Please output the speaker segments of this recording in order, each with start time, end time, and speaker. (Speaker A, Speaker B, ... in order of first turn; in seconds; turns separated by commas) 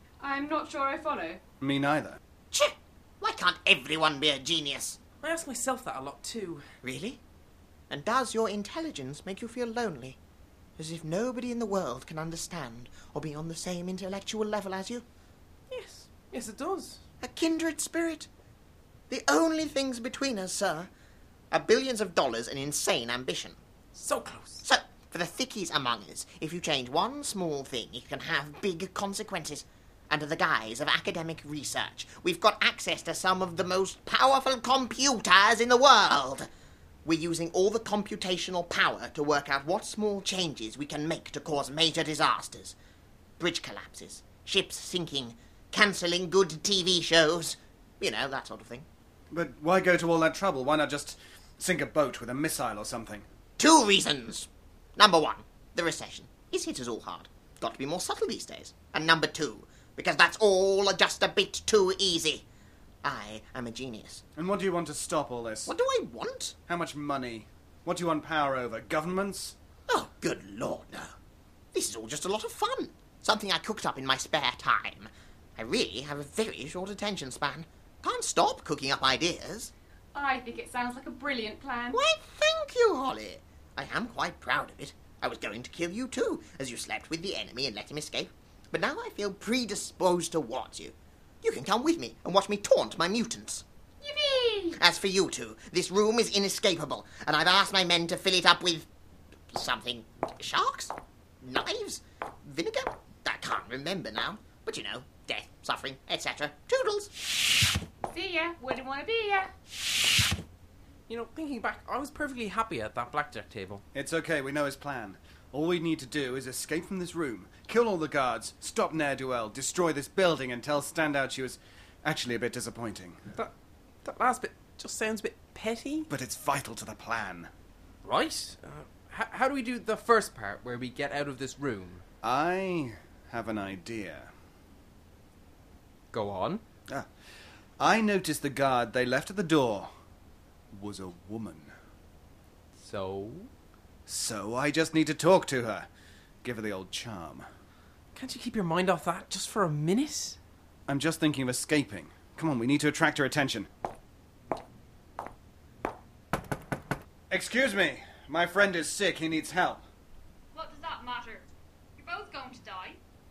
Speaker A: 0.2-1.4, Speaker B: 1.6-2.2, Speaker C: 2.5-5.0, Speaker D: 5.2-6.7, Speaker C: 6.8-7.2, Speaker C: 7.9-10.2, Speaker C: 10.8-15.1, Speaker D: 15.7-17.0, Speaker C: 17.2-18.3, Speaker C: 19.1-20.9, Speaker C: 21.5-23.6, Speaker D: 23.9-24.7, Speaker C: 24.6-36.5, Speaker C: 37.0-42.8, Speaker C: 43.4-48.9, Speaker B: 49.3-53.3, Speaker C: 53.6-62.5, Speaker C: 63.0-64.2, Speaker B: 64.4-65.7, Speaker C: 65.7-66.6, Speaker B: 66.7-69.6, Speaker C: 69.9-71.2, Speaker C: 71.7-79.7, Speaker A: 80.1-82.0, Speaker C: 81.9-93.6, Speaker A: 94.0-94.8, Speaker C: 94.8-98.9, Speaker C: 99.5-107.1, Speaker A: 108.1-109.5, Speaker D: 111.1-113.8, Speaker B: 113.9-123.2, Speaker D: 124.0-126.1, Speaker B: 126.1-127.5, Speaker D: 128.0-132.0, Speaker B: 132.2-134.3, Speaker D: 136.1-136.6, Speaker B: 137.8-139.9, Speaker B: 140.7-141.7, Speaker D: 142.8-143.5, Speaker B: 144.1-145.9, Speaker B: 146.4-147.5, Speaker D: 148.2-150.4, Speaker B: 150.9-153.7, Speaker B: 157.3-159.8, Speaker E: 160.5-163.0